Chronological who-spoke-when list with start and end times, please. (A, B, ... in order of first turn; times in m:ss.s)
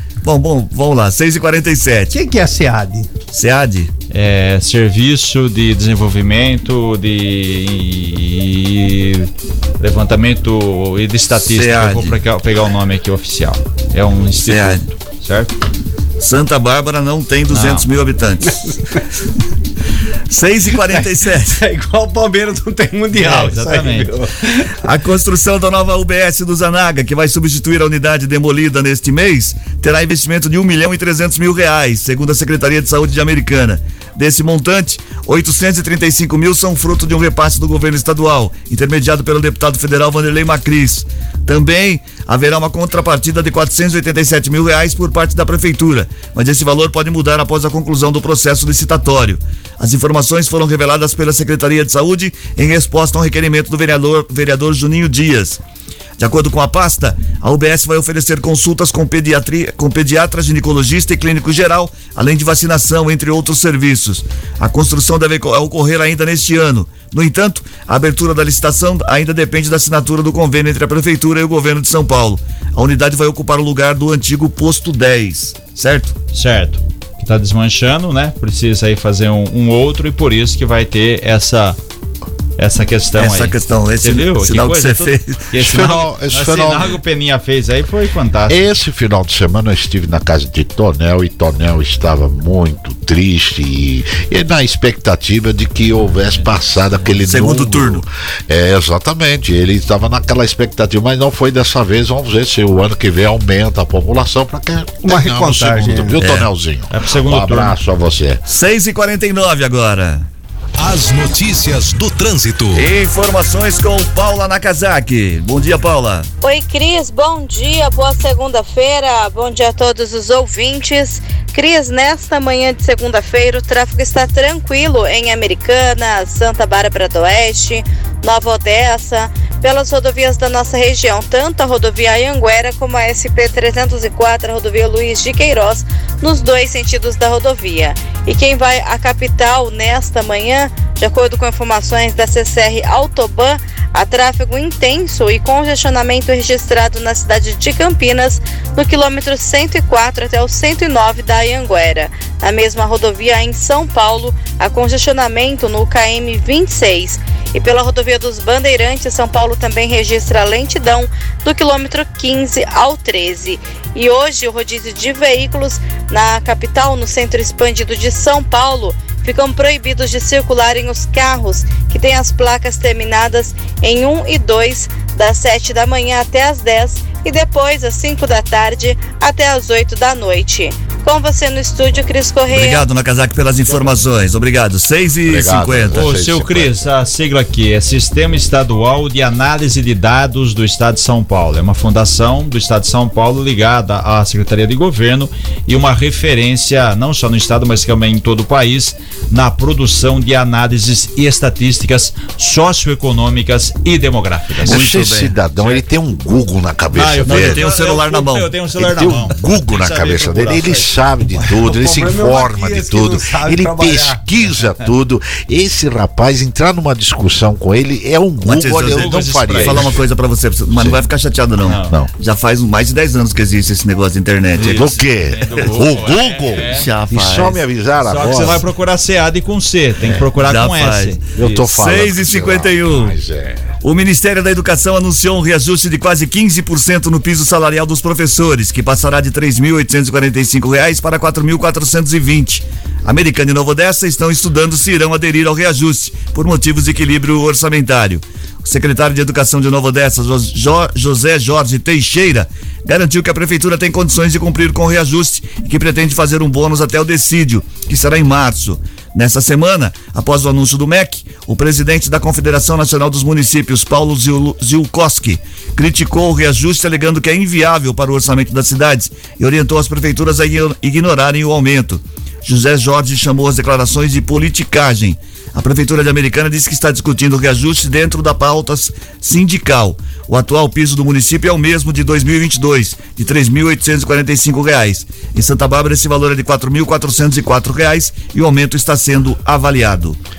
0:00.2-0:02.1 A
0:02.1-0:03.1 B
0:03.3-0:03.9 A
0:04.1-0:15.5 C
0:11.4-0:12.2 A
0:14.5-0:14.8 A
0:16.2-0:18.6 A
0:17.5-0:17.9 C
0:18.5-0:19.0 B
0:20.3-0:21.6 A
0:20.9-0:24.8 B
0:23.1-0:24.1 C
0:24.8-0:55.6 A
0:56.2-1:16.2 A
1:16.3-1:21.8 C
1:22.6-1:28.6 C
1:23.2-1:25.4 A
1:25.6-1:27.0 D
1:28.5-1:48.4 D
1:36.3-1:37.1 C
1:37.2-1:38.0 A
1:45.0-1:46.2 B
1:46.2-1:46.5 A
1:46.9-1:47.8 C
1:48.5-1:50.3 A
1:50.8-1:52.9 E
1:52.7-1:56.3 A
1:56.4-3:02.9 F
3:02.5-3:06.1 A
3:05.2-3:06.9 D
3:05.9-3:24.8 C
3:24.6-3:27.6 D
3:24.6-3:25.3 A
3:26.9-3:30.9 C
3:27.2-3:28.5 A
3:28.8-3:40.0 D
3:31.4-3:34.2 B
3:38.4-3:45.0 A
3:38.8-3:40.0 C
3:40.7-3:41.0 D
3:41.6-3:41.9 C
3:44.6-3:46.9 C
3:44.6-3:48.6 D
3:45.6-3:45.9 A
3:46.6-3:47.6 A
3:48.0-3:51.6 C
3:50.0-3:50.3 D
3:50.4-3:53.1 A
3:51.4-3:53.7 D
3:53.8-4:50.2 A